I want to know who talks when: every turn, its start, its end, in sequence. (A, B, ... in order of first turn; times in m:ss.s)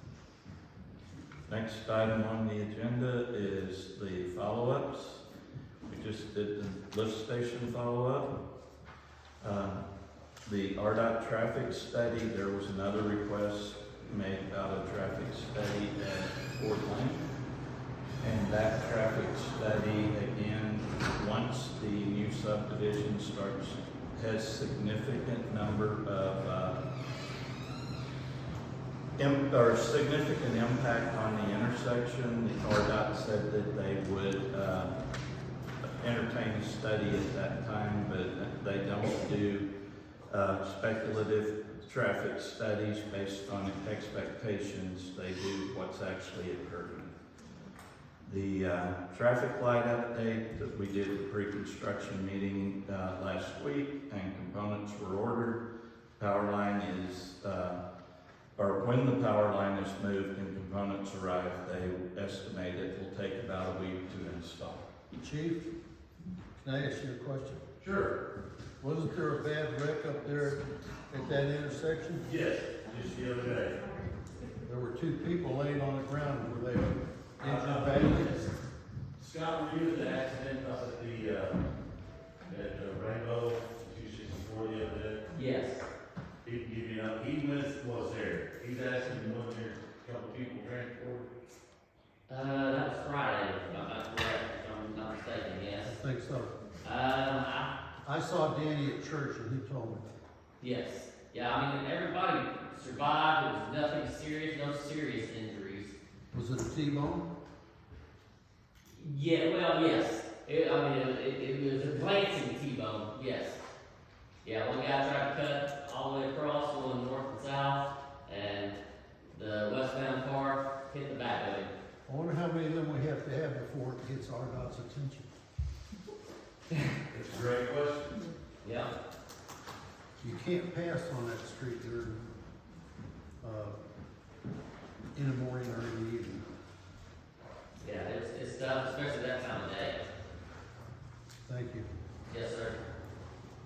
0:01.5-0:05.2 A
0:05.9-0:08.3 A
0:09.4-0:09.9 A
0:10.5-0:17.3 A
0:18.2-0:26.8 A
0:29.2-0:34.9 A
0:35.9-0:39.7 A
0:40.3-0:47.1 A
0:48.2-0:55.6 A
0:56.2-0:57.8 A
0:58.6-1:04.8 A
1:05.2-1:05.7 B
1:06.6-1:07.6 B
1:07.8-1:08.2 C
1:08.8-1:12.3 B
1:12.3-1:13.8 C
1:14.6-1:18.5 B
1:17.4-1:18.4 C
1:19.2-1:21.5 C
1:22.5-1:25.2 C
1:25.3-1:25.9 D
1:26.4-1:31.3 C
1:32.3-1:36.0 D
1:35.8-1:36.5 B
1:36.8-1:37.7 D
1:38.0-1:40.1 B
1:40.6-1:45.9 D
1:46.3-1:47.2 B
1:48.9-1:53.6 D
1:54.4-1:58.8 D
1:59.3-2:01.7 D
2:02.1-2:05.3 B
2:07.1-2:08.2 A
2:07.4-2:08.1 C
2:08.6-2:08.9 D
2:10.2-2:12.3 B
2:13.4-2:13.8 B
2:15.1-2:16.5 B
2:17.8-2:20.0 D
2:21.5-2:21.9 B
2:22.3-2:22.8 D